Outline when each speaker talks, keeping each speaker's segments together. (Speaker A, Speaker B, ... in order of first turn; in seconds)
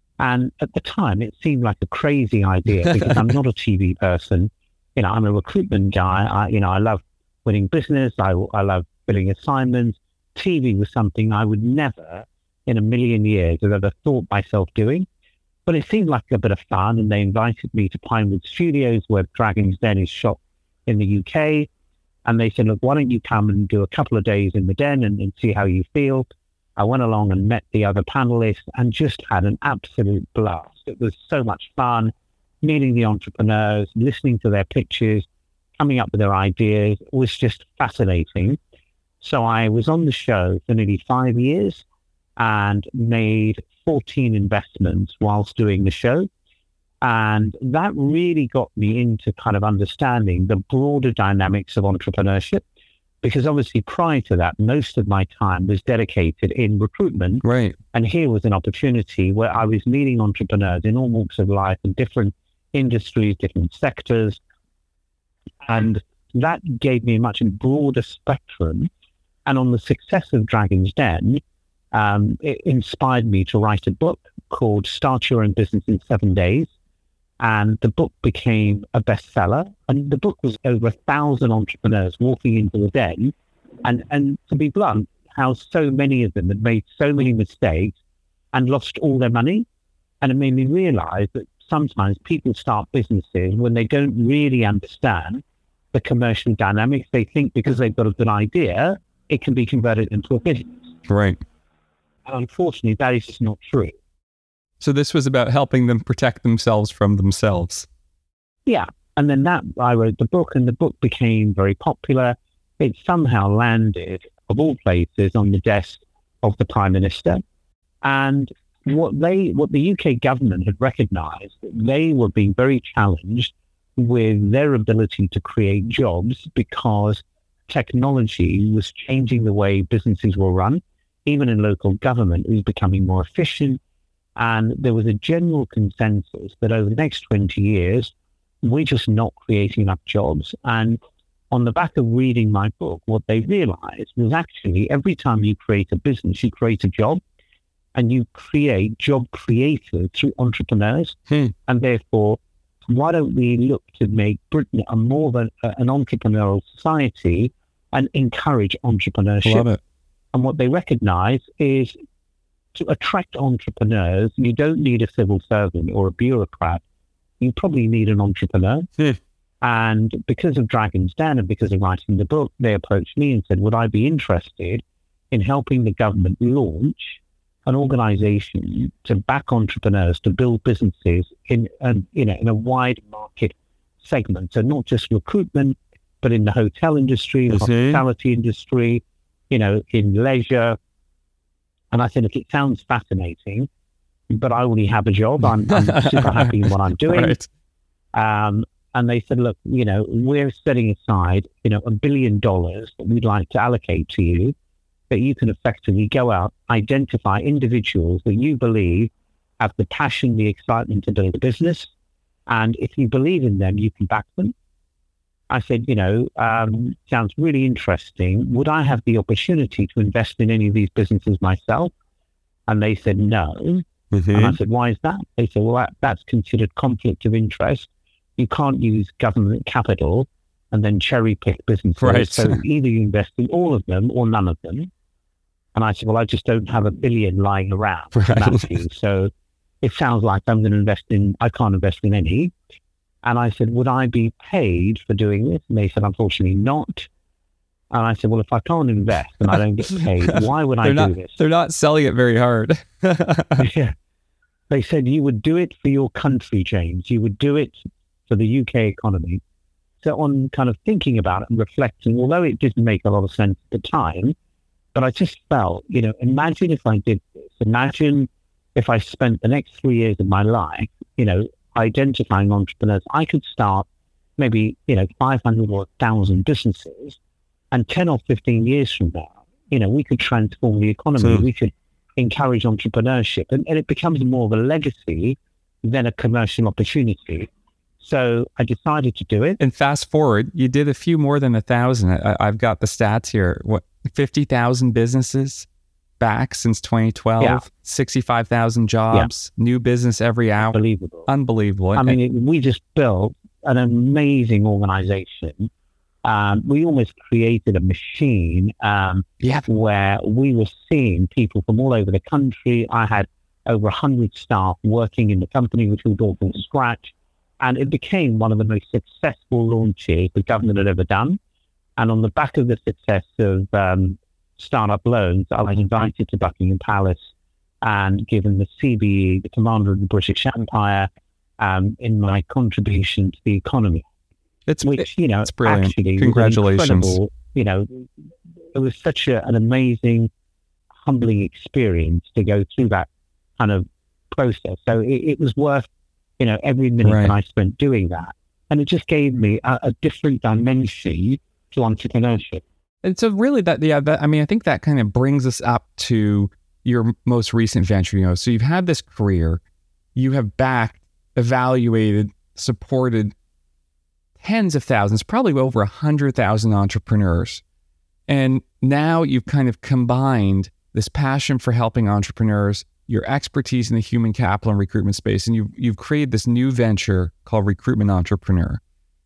Speaker A: 0.2-15.1, 15.7-21.7, 22.2-35.2, 35.8-38.6, 39.2-41.8, 42.4-46.3, 47.0-52.6, 53.2-64.4, 65.6-68.9, 69.5-71.4, 71.9-76.7, 77.4-83.3, 83.8-88.0, 88.5-89.7, 90.2-95.4, 95.9-100.8, 102.2-103.9, 108.7-117.4, 118.0-133.8, 134.4-141.0, 141.5-147.2, 147.9-159.7, 160.3-161.9, 162.7-166.8, 167.4-168.9, 169.6-190.8, 191.9-193.7, 194.3-197.3, 198.1-204.5, 205.1-211.9, 212.5-214.5, 215.5-221.9, 222.7-234.9, 235.7-239.3, 239.8-242.5, 243.2-247.1, 247.9-251.4, 253.6-253.9, 254.7-259.4, 260.0-264.3, 264.9-273.9, 274.4-277.2, 277.7-289.6, 300.7-301.3, 301.9-305.7, 306.2-321.4, 322.0-327.2, 327.8-331.1, 331.6-334.1, 334.8-338.1, 338.7-340.3, 341.0-352.6
Speaker B: 57.4-57.8, 101.1-101.4, 104.8-107.9, 159.4-159.8, 187.5-188.0, 195.7-197.5, 224.1-224.5, 232.0-232.6, 238.1-238.8, 250.8-253.7, 289.6-295.7, 296.2-302.2, 309.4-309.7, 334.7-337.2, 347.0-347.3, 353.0-359.6, 360.1-363.3, 364.4-367.6, 368.3-378.8